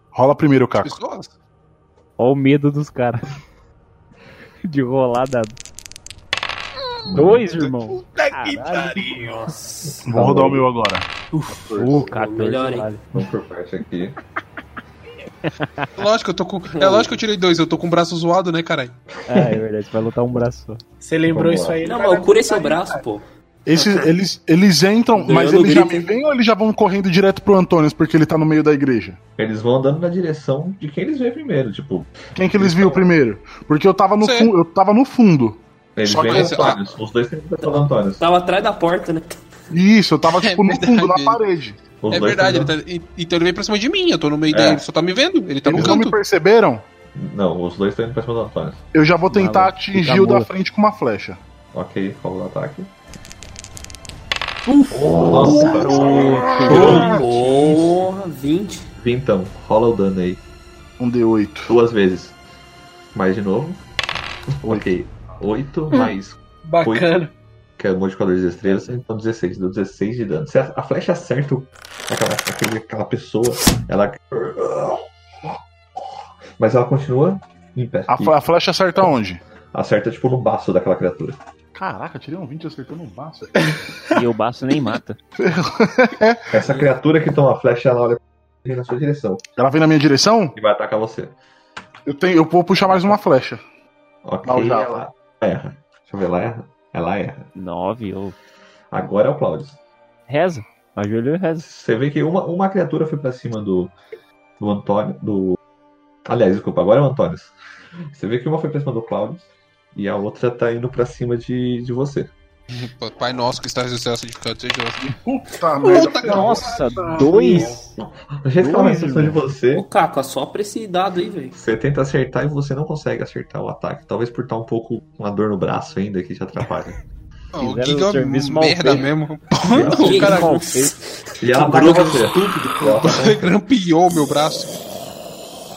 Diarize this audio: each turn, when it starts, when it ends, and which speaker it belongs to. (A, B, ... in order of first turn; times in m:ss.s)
0:00.1-0:01.0 A
0:00.8-0:01.3 B
0:02.2-0:03.3 C
0:04.6-0:05.6 C
0:07.0-0:07.4 D
0:07.1-0:09.1 C
0:08.0-0:08.5 B
0:08.9-0:10.1 E
0:10.0-0:12.0 A
0:10.1-0:10.6 D
0:11.7-0:13.0 C
0:11.9-0:12.9 E
0:13.1-0:14.2 D
0:15.4-0:15.9 C
0:16.0-0:19.0 B
0:16.7-0:17.2 E
0:19.3-0:20.8 C
0:19.3-0:19.6 D
0:21.0-0:23.0 F
0:21.3-0:21.8 D
0:21.8-0:24.1 E
0:23.7-0:29.2 A
0:25.2-0:26.1 E
0:29.4-0:33.0 D
0:32.3-0:36.7 A
0:34.2-0:34.5 B
0:36.0-0:38.2 D
0:36.1-0:36.8 B
0:38.2-0:39.4 E
0:39.7-0:41.8 A
0:40.4-0:41.4 B
0:42.0-0:42.7 D
0:42.1-0:46.2 B
0:44.5-0:44.8 D
0:45.6-0:46.8 A
0:45.7-0:46.0 D
0:47.1-0:48.8 D
0:48.9-0:51.4 A
0:49.3-0:50.5 C
0:51.7-0:52.9 D
0:54.6-0:58.9 E
0:54.9-0:57.2 D
0:55.3-0:57.2 C
0:56.8-0:57.8 B
0:59.0-1:00.4 D
1:01.0-1:01.8 A
1:01.7-1:02.4 D
1:03.1-1:03.8 D
1:04.5-1:07.1 D
1:06.6-1:07.3 F
1:07.8-1:15.5 D
1:16.6-1:18.4 D
1:18.1-1:19.4 A
1:19.7-1:21.4 D
1:21.7-1:23.8 A
1:24.1-1:25.2 C
1:25.4-1:26.5 A
1:26.5-1:29.4 D
1:29.6-1:30.6 A
1:30.5-1:31.4 D
1:32.0-1:33.6 A
1:34.2-1:37.5 D
1:34.4-1:35.0 A
1:37.6-1:38.4 C
1:38.9-1:39.8 D
1:40.3-1:41.7 C
1:41.6-1:43.9 D
1:44.6-1:45.6 D
1:46.2-1:47.5 D
1:48.1-1:52.3 D
1:52.7-1:55.0 B
1:55.2-1:57.3 A
1:55.8-1:56.8 B
1:56.2-1:57.9 C
1:57.2-1:57.7 F
1:58.0-1:59.8 D
1:58.6-1:59.4 C
1:59.7-2:01.6 E
2:01.5-2:07.0 D
2:07.5-2:10.6 B
2:07.6-2:09.1 C
2:09.7-2:10.3 D
2:09.8-2:10.9 C
2:09.9-2:13.1 E
2:11.4-2:13.5 D
2:13.0-2:14.7 B